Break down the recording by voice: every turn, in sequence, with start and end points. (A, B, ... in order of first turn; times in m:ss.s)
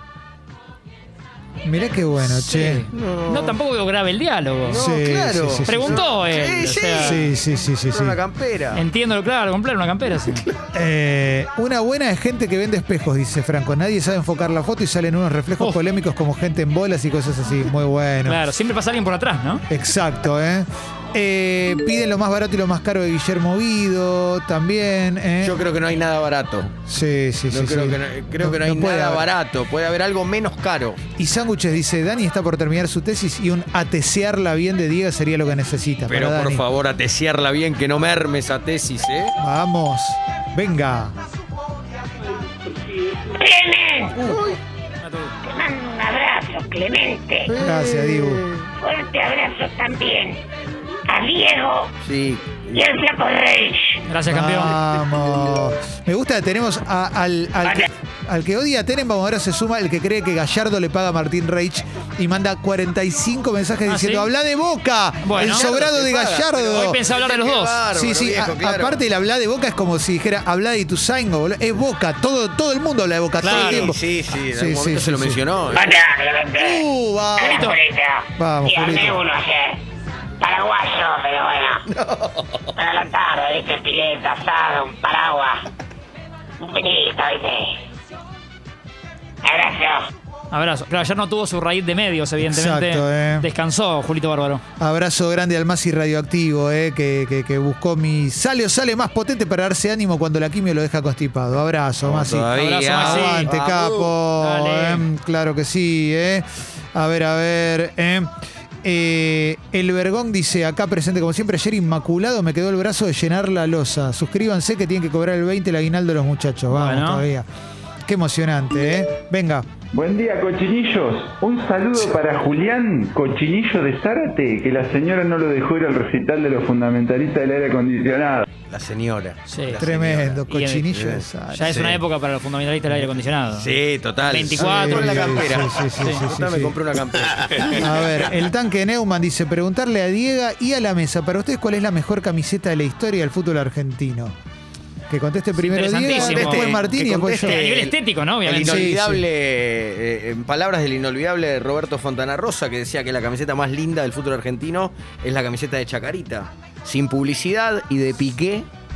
0:01.6-0:02.8 A
0:02.2-0:04.8 B
0:02.9-0:03.6 C
0:04.6-0:08.9 C
0:04.7-0:06.0 A
0:05.7-0:07.2 B
0:07.0-0:08.2 A
0:08.7-0:10.4 B
0:10.2-0:10.6 C
0:10.7-0:18.4 A
0:18.2-0:19.6 B
0:19.7-0:25.6 A
0:25.4-0:26.8 C
0:26.9-0:29.3 A
0:27.5-0:31.0 C
0:31.2-0:36.6 A
0:36.1-0:39.4 C
0:39.4-0:41.1 A
0:43.4-0:44.2 D
0:44.2-0:44.5 A
0:44.2-0:44.6 C
0:45.0-0:45.3 B
0:45.4-0:47.4 D
0:47.5-0:48.7 C
0:47.6-0:48.4 A
0:48.8-0:50.4 D
0:51.1-0:51.9 D
0:52.0-0:53.0 C
0:52.8-0:54.0 D
0:54.1-0:54.7 B
0:54.3-1:07.1 A
1:03.8-1:04.3 B
1:05.2-1:05.8 B
1:05.4-1:09.0 C
1:06.9-1:07.8 B
1:07.9-1:14.0 A
1:13.4-1:13.9 B
1:13.4-1:15.9 C
1:14.5-1:15.4 A
1:15.8-1:16.8 D
1:16.5-1:17.7 A
1:17.4-1:19.8 D
1:18.4-1:19.2 A
1:20.4-1:21.8 D
1:21.9-1:22.7 C
1:22.8-1:25.6 D
1:26.6-1:27.7 D
1:29.4-1:30.1 D
1:30.5-1:34.6 B
1:32.4-1:33.5 A
1:34.8-1:48.3 A
1:42.0-1:44.2 C
1:42.6-1:43.5 B
1:44.4-1:45.1 B
1:48.8-1:57.4 A
1:56.7-1:57.2 B
1:58.1-1:59.7 A
1:59.9-2:08.4 E
2:08.7-2:12.0 C
2:09.5-2:09.8 B
2:09.8-2:11.8 A
2:10.5-2:11.0 B
2:11.5-2:15.4 B
2:13.5-2:18.3 C
2:14.5-2:16.8 A
2:17.8-2:24.3 A
2:25.1-2:27.6 A
2:25.6-2:26.8 B
2:26.0-2:38.7 C
2:27.4-2:28.9 B
2:28.6-2:29.2 A